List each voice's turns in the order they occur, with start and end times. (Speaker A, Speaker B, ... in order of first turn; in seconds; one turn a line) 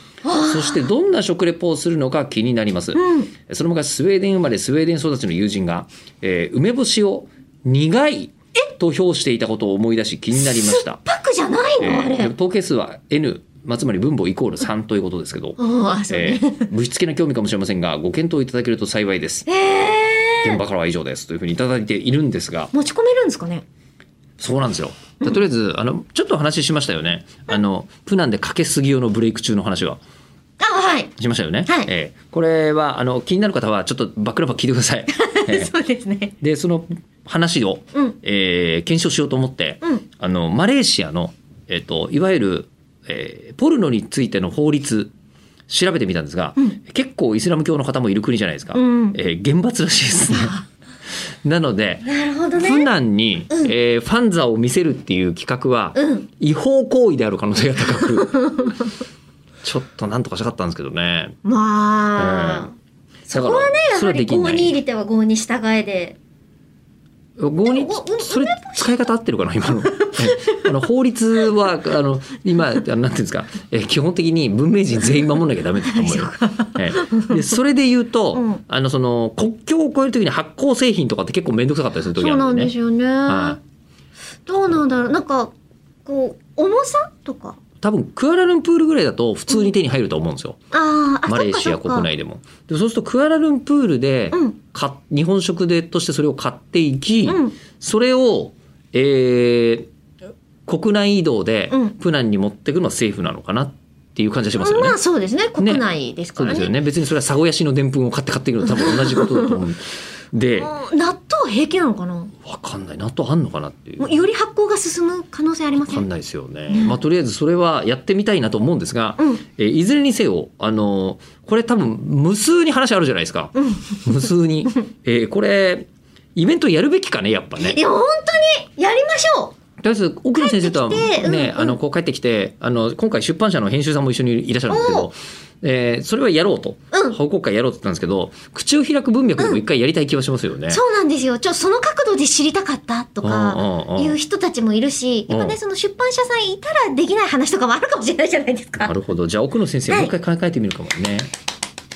Speaker A: 0.2-0.8
Speaker B: 0.4-11.0
Speaker A: 2.9-3.3
Speaker A: 10.6-12.3
Speaker B: 11.8-19.5
Speaker A: 15.6-16.7
Speaker A: 19.5-20.6
Speaker B: 20.4-22.7
Speaker A: 22.7-23.6
Speaker B: 24.4-30.0
Speaker A: 30.6-31.1
Speaker B: 31.2-35.7
Speaker A: 35.1-36.4
Speaker B: 36.4-45.1
Speaker B: 45.7-50.6
Speaker A: 48.7-49.2
Speaker B: 51.4-58.8
Speaker A: 52.1-52.9
Speaker A: 56.0-56.3
Speaker A: 58.2-58.7
Speaker B: 59.6-61.4
Speaker A: 61.5-62.7
Speaker B: 62.2-62.7
Speaker B: 63.3-64.7
Speaker A: 63.3-66.2
Speaker B: 67.4-82.7
Speaker A: 67.7-69.0
Speaker A: 69.8-70.6
Speaker A: 75.9-77.5
Speaker A: 78.4-78.6
Speaker A: 82.2-83.6
Speaker B: 83.3-83.6
Speaker A: 84.5-85.5
Speaker A: 86.1-87.6
Speaker B: 87.8-90.6
Speaker A: 90.7-92.1
Speaker B: 91.3-99.9
Speaker A: 94.3-94.6
Speaker A: 97.3-97.5
Speaker B: 100.7-105.0
Speaker A: 101.7-102.0
Speaker A: 104.6-106.7
Speaker B: 105.6-105.8
Speaker B: 106.4-110.7
Speaker A: 108.6-109.6
Speaker A: 110.6-112.3
Speaker B: 112.4-114.2
Speaker A: 114.0-116.1
Speaker B: 115.8-127.8
Speaker A: 116.7-117.0
Speaker A: 123.6-124.0
Speaker A: 127.6-129.6
Speaker B: 129.8-140.8
Speaker A: 130.4-131.8
Speaker A: 134.7-135.1
Speaker A: 136.9-137.2
Speaker A: 140.7-148.9
Speaker B: 143.2-144.2
Speaker B: 145.3-145.6
Speaker B: 148.8-151.3